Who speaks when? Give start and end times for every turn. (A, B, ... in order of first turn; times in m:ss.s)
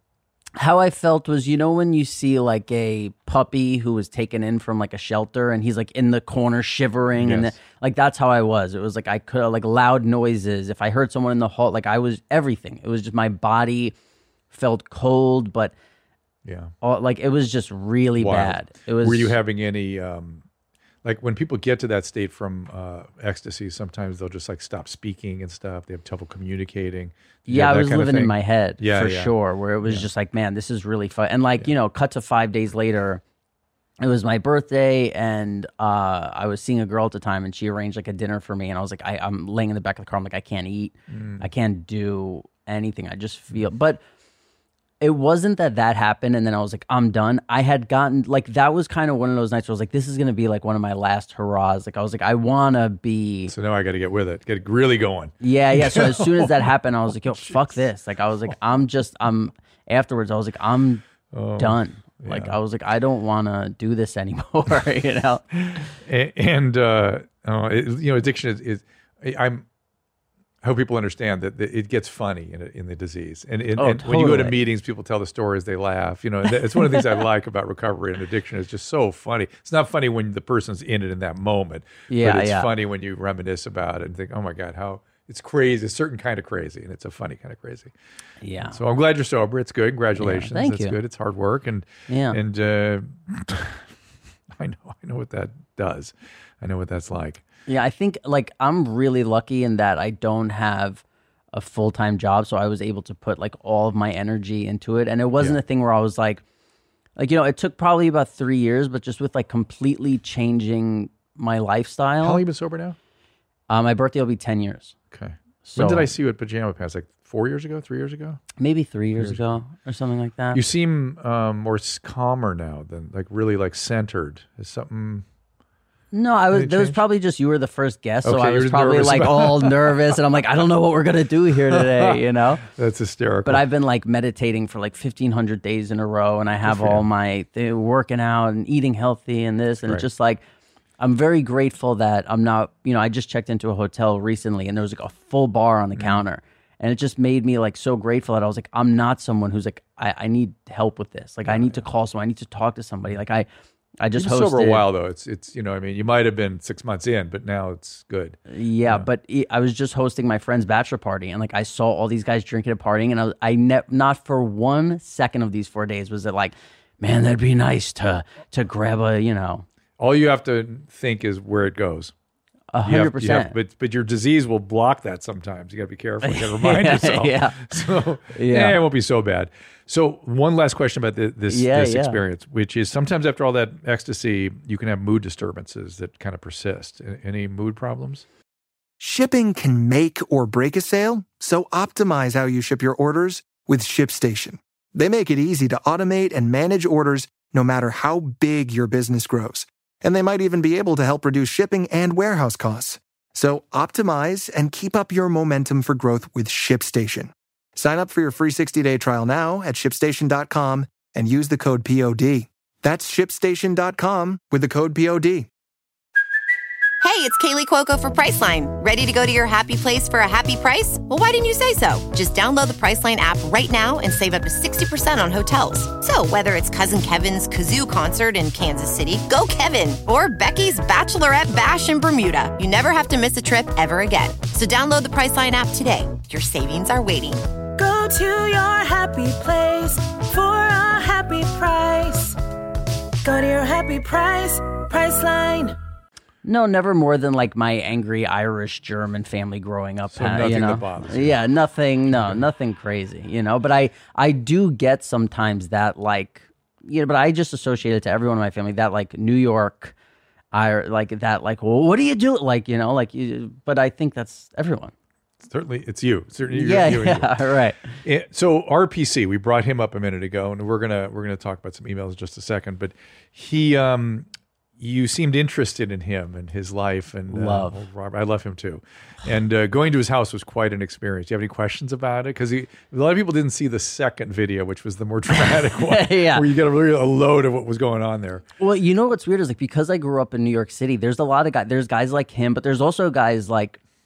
0:00.6-0:13.9 A
0:07.2-0:07.5 B
0:14.5-0:15.7 A
0:16.4-0:16.7 B
0:16.8-0:19.4 A
0:18.2-0:20.4 B
0:21.0-0:29.3 B
0:27.5-0:33.2 A
0:34.0-0:44.0 A
0:41.1-0:41.4 B
0:45.0-0:53.5 A
0:53.5-0:56.7 B
0:55.4-1:01.0 A
0:57.3-0:57.6 B
1:01.3-1:02.6 B
1:01.6-1:05.6 A
1:05.6-1:09.6 B
1:10.6-1:27.9 B
1:13.8-1:14.6 A
1:16.7-1:17.2 A
1:22.1-1:22.7 A
1:28.4-1:28.8 A
1:28.6-1:33.8 B
1:30.2-1:31.0 A
1:32.1-1:32.4 A
1:34.6-1:37.4 B
1:37.7-1:46.4 A
1:47.2-1:52.4 A
1:52.2-1:53.0 B
1:53.7-1:55.0 A
1:55.1-1:58.4 B
1:55.6-1:56.1 A
1:58.6-2:00.6 A
1:59.2-1:59.4 B
2:00.5-2:05.2 B
2:06.1-2:12.6 A
2:06.5-2:07.0 B
2:08.2-2:10.0 B
2:11.7-2:13.6 B
2:13.5-2:20.4 A
2:16.6-2:17.0 B
2:21.0-2:33.5 A
2:26.0-2:26.2 B
2:31.5-2:31.8 B
2:34.0-2:34.9 A
2:34.2-2:39.1 B
2:38.5-2:49.6 A
2:50.0-2:52.1 B
2:52.7-2:53.5 A
2:52.8-3:08.2 B
2:56.2-2:57.8 A
2:58.3-2:58.8 A
3:01.5-3:02.2 A
3:09.0-3:35.5 C
3:37.0-3:57.4 D
3:57.8-4:02.4 E
4:03.2-4:05.8 E
4:06.4-4:19.9 A
4:10.1-4:11.4 B
4:20.5-4:24.9 A
4:25.4-4:27.3 B
4:26.5-4:27.9 A
4:28.0-4:34.3 B
4:34.8-4:48.4 B
4:37.3-4:37.8 A
4:45.3-4:46.5 A
4:48.6-4:53.8 A